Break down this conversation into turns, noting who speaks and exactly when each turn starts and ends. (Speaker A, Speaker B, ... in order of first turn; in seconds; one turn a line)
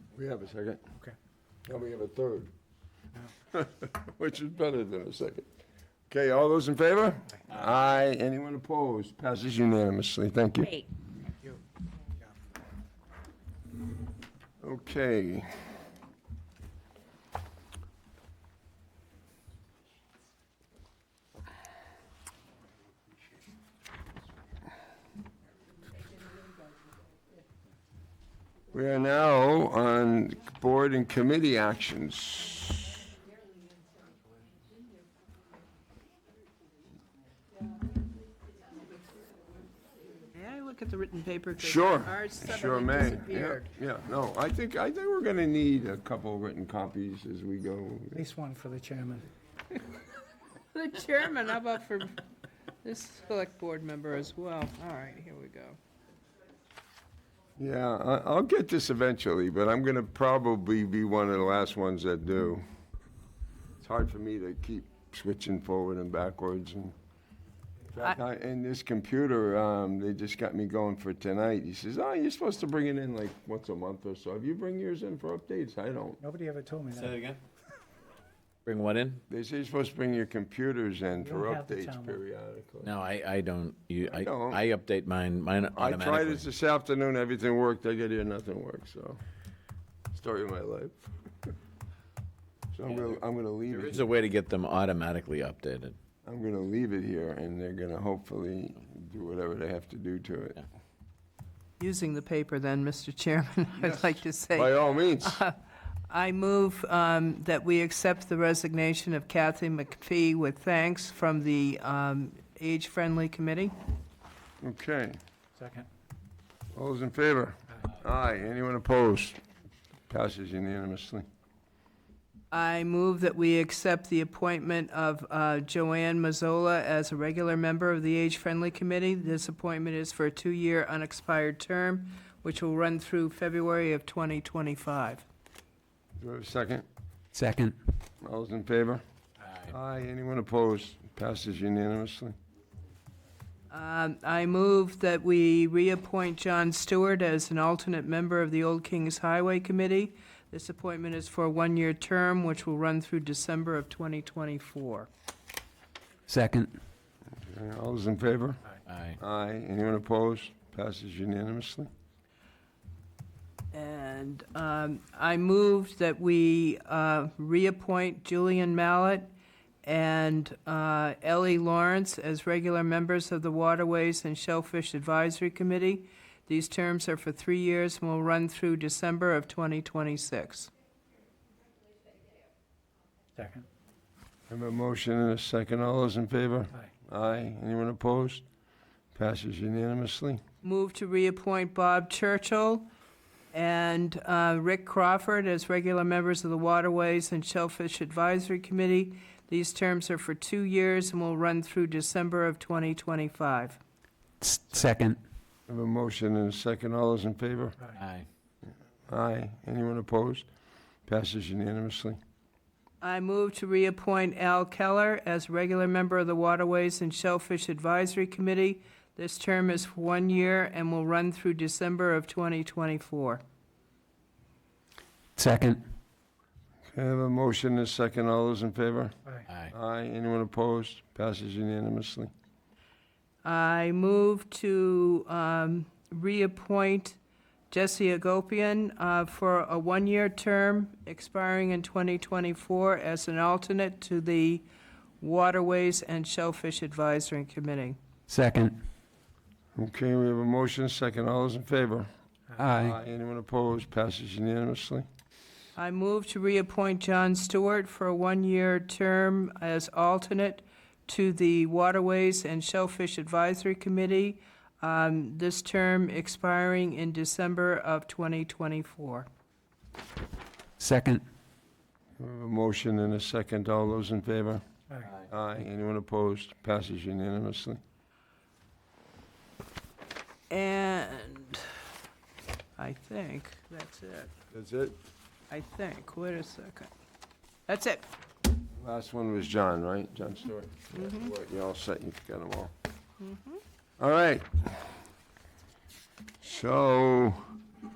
Speaker A: 0.1-0.8
Speaker A: 1.7-2.5
Speaker A: 3.5-5.5
Speaker A: 6.1-10.9
Speaker A: 14.6-15.5
Speaker A: 28.7-32.8
Speaker B: 40.3-43.7
Speaker A: 41.6-48.2
Speaker C: 48.1-49.3
Speaker B: 50.7-52.2
Speaker B: 52.8-55.8
Speaker A: 57.6-62.6
Speaker A: 63.8-66.9
Speaker A: 67.9-76.2
Speaker C: 76.2-77.2
Speaker D: 76.9-77.4
Speaker D: 78.7-79.2
Speaker A: 79.3-82.9
Speaker C: 81.2-82.2
Speaker D: 82.8-86.5
Speaker A: 84.0-84.6
Speaker A: 85.8-89.2
Speaker A: 90.1-91.2
Speaker A: 92.7-94.0
Speaker D: 92.9-96.0
Speaker A: 96.2-100.6
Speaker B: 101.8-105.5
Speaker A: 103.8-105.4
Speaker B: 106.1-113.7
Speaker A: 114.6-115.2
Speaker C: 115.6-115.9
Speaker A: 116.7-119.4
Speaker A: 120.1-121.2
Speaker B: 122.5-135.2
Speaker A: 136.2-136.8
Speaker E: 137.3-137.7
Speaker A: 138.2-139.0
Speaker A: 139.6-142.3
Speaker B: 143.7-155.1
Speaker E: 156.3-156.7
Speaker A: 157.4-158.6
Speaker D: 158.9-159.2
Speaker A: 159.2-161.9
Speaker B: 163.7-169.3
Speaker B: 169.8-180.7
Speaker C: 183.3-183.6
Speaker A: 184.5-188.4
Speaker A: 189.1-190.4
Speaker B: 190.6-192.9
Speaker B: 193.5-203.8
Speaker E: 204.4-205.2
Speaker A: 205.7-207.8
Speaker D: 207.9-208.2
Speaker A: 209.1-210.4
Speaker A: 211.1-212.2
Speaker B: 213.0-223.4
Speaker E: 225.4-225.8
Speaker A: 226.9-232.3
Speaker B: 233.4-237.2
Speaker B: 237.7-244.7
Speaker B: 245.2-248.0
Speaker E: 248.3-248.8
Speaker A: 249.8-252.1
Speaker E: 252.6-252.9
Speaker A: 252.6-255.0
Speaker B: 255.8-269.3
Speaker E: 270.8-271.2
Speaker A: 272.2-274.6
Speaker A: 275.2-277.8
Speaker B: 280.5-281.8
Speaker B: 282.8-284.3
Speaker A: 284.5-284.9
Speaker B: 285.5-286.9
Speaker B: 287.7-288.1
Speaker A: 288.8-292.7
Speaker B: 290.9-291.3
Speaker B: 293.2-293.6
Speaker A: 294.0-295.0
Speaker A: 296.4-297.5